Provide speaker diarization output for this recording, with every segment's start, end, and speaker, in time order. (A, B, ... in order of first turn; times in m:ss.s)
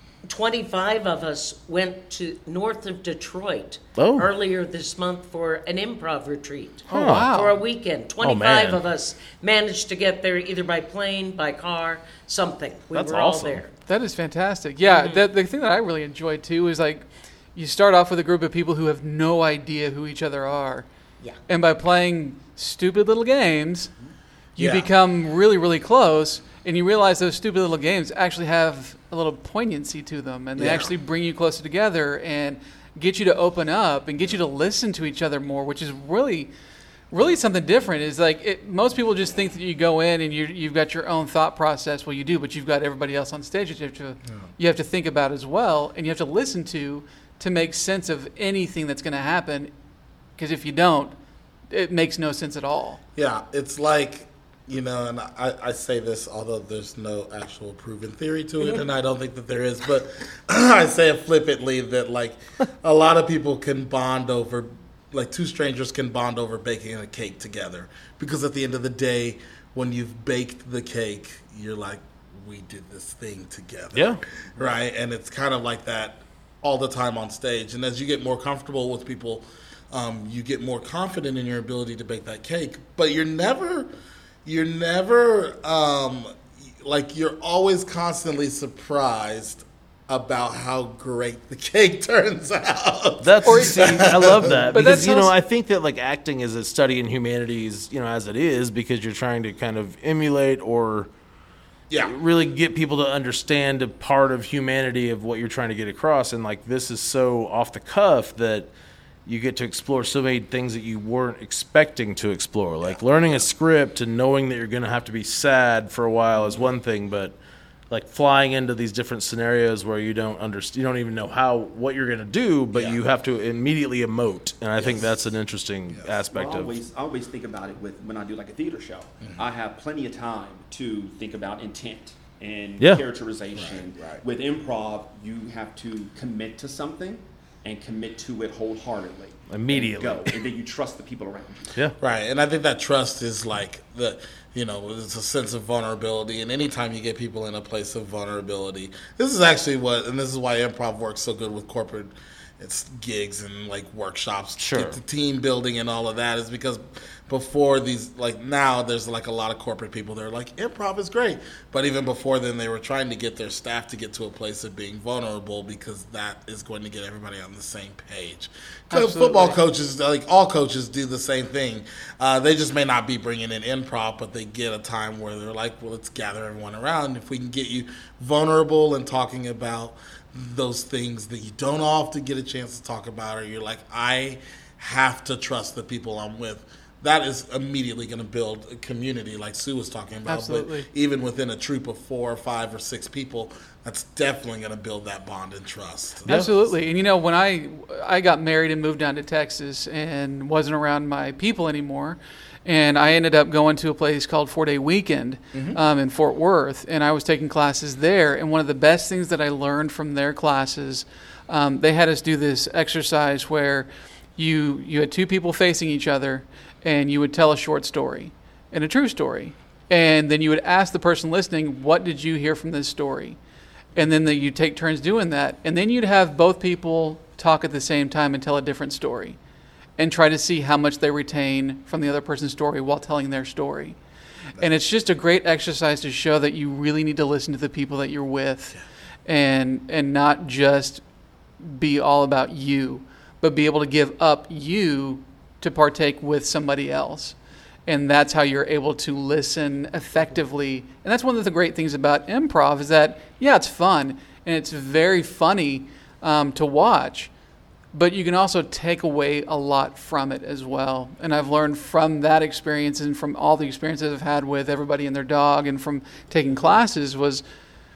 0:00.3-0:13.7 A
0:04.0-0:04.3 B
0:06.9-0:07.6 C
0:06.9-0:07.3 B
0:08.2-0:08.8 B
0:12.9-0:13.6 B
0:13.9-0:20.9 C
0:14.9-0:15.2 A
0:21.5-0:23.9 C
0:24.6-0:36.5 C
0:24.6-0:24.9 D
0:30.6-0:30.9 D
0:37.1-0:49.7 C
0:50.4-0:51.2 C
0:51.7-0:53.0 C
0:53.2-1:23.9 D
1:13.9-1:14.2 B
1:24.4-1:35.0 D
1:33.2-1:41.1 B
1:33.4-1:35.3 C
1:42.0-1:48.7 B
1:49.3-1:57.4 B
1:52.8-1:53.5 D
1:57.9-2:06.8 B
2:02.7-2:03.0 D
2:04.8-2:05.2 D
2:06.3-2:21.8 E
2:13.6-2:14.2 D
2:19.5-2:20.4 B
2:22.0-3:16.7 D
2:34.6-2:35.0 B
2:48.9-2:49.6 C
3:10.3-3:10.9 C
3:16.3-3:43.4 C
3:25.5-3:25.8 D
3:44.0-3:49.4 C
3:50.0-3:54.0 C
3:54.6-3:58.8 C
3:59.3-4:01.0 C
4:01.6-4:17.3 C
4:17.9-4:27.4 C